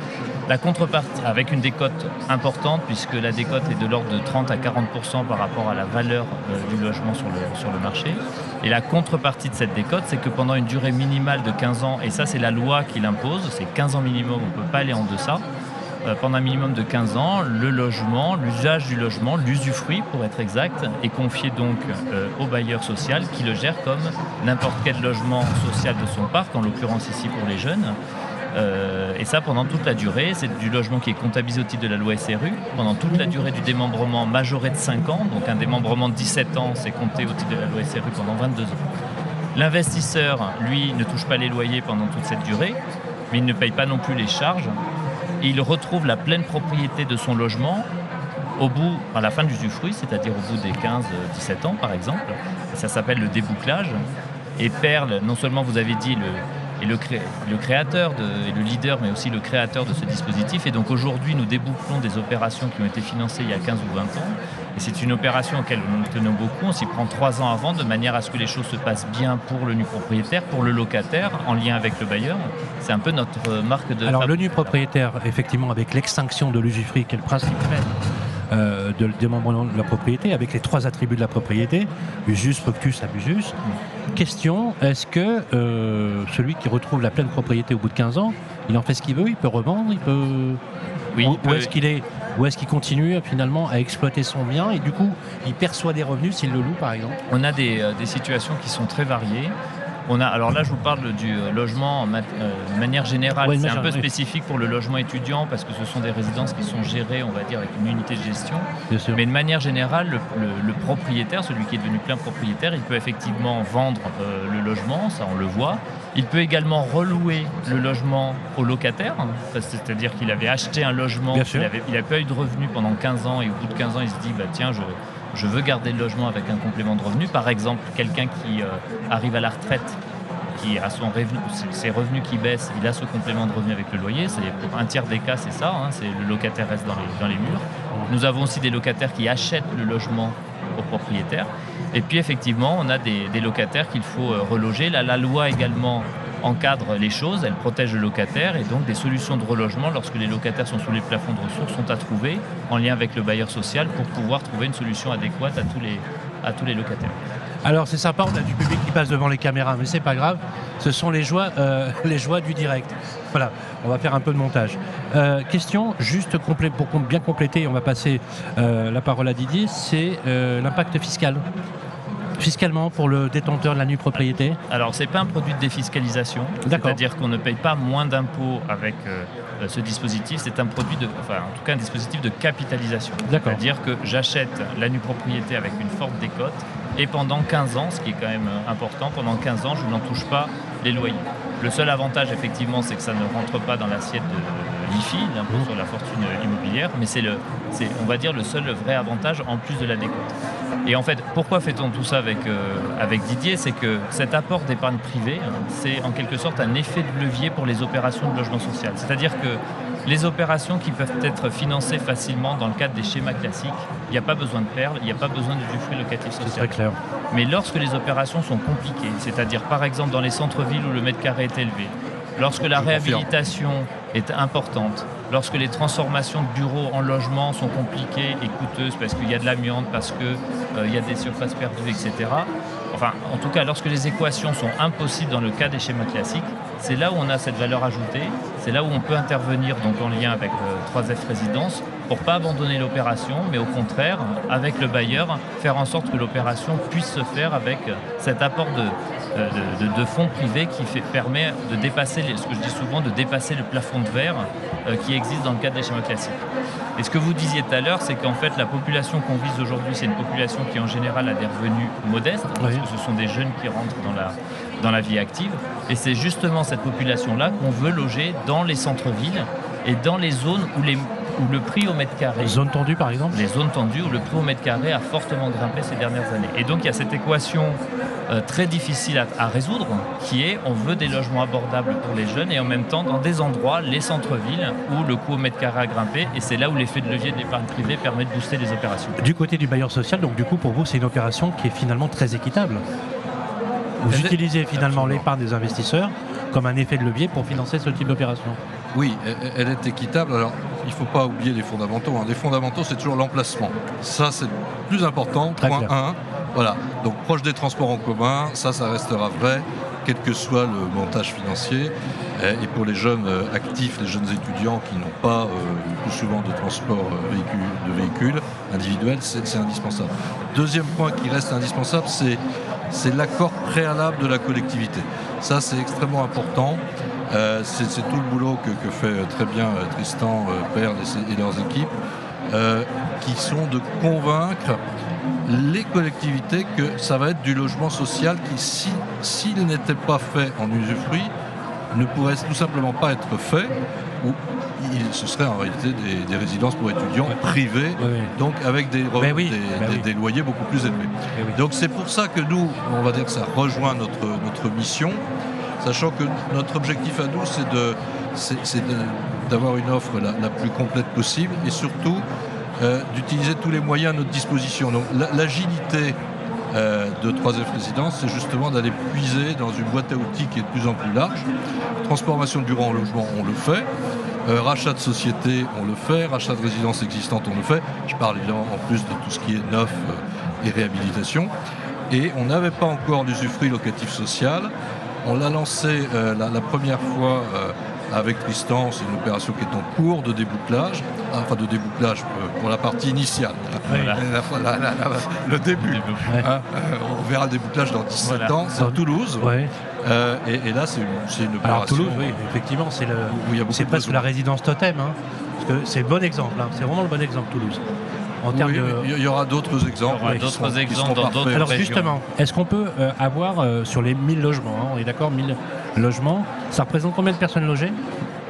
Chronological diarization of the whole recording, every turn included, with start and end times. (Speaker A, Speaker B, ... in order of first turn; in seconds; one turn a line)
Speaker A: 0.5-15.4
Speaker A: 16.0-28.0
Speaker A: 28.5-38.8
Speaker A: 39.5-42.8
Speaker A: 43.3-44.8
Speaker A: 45.4-47.9
Speaker A: 48.6-54.0
Speaker A: 54.6-74.7
Speaker B: 74.0-77.9
Speaker B: 78.5-83.5
Speaker B: 84.1-90.6
Speaker A: 91.1-91.7
Speaker B: 91.2-97.2
Speaker A: 97.3-99.5
Speaker A: 100.1-130.0
Speaker B: 103.4-104.1
Speaker B: 108.9-109.2
Speaker B: 121.3-121.7
Speaker A: 130.6-157.2
Speaker B: 157.6-171.4
Speaker B: 172.4-174.6
Speaker A: 174.7-216.8
Speaker B: 176.6-177.0
Speaker B: 183.3-183.6
Speaker B: 216.4-217.0
Speaker A: 217.3-256.4
Speaker C: 222.6-223.3
Speaker A: 257.0-272.6
Speaker B: 262.6-262.9
Speaker B: 272.4-273.4
Speaker A: 273.3-289.2
Speaker B: 289.2-292.8
Speaker B: 294.0-298.6
Speaker C: 294.1-295.3
Speaker C: 298.9-331.9
Speaker B: 305.6-305.9
Speaker C: 332.5-334.8
Speaker C: 335.4-341.3
Speaker C: 341.9-355.2
Speaker B: 348.0-348.3
Speaker B: 349.2-350.1
Speaker C: 355.8-362.2
Speaker C: 362.8-366.2
Speaker C: 366.7-371.5
Speaker C: 372.0-373.9
Speaker C: 374.4-381.5
Speaker C: 382.1-384.7
Speaker C: 385.2-399.5
Speaker A: 393.9-394.2
Speaker B: 393.9-394.2
Speaker A: 398.2-398.5
Speaker B: 398.8-399.7
Speaker C: 400.0-402.4
Speaker B: 401.6-407.8
Speaker C: 403.3-404.2
Speaker B: 408.4-409.1
Speaker C: 408.5-411.9
Speaker A: 410.1-412.2
Speaker B: 411.5-418.0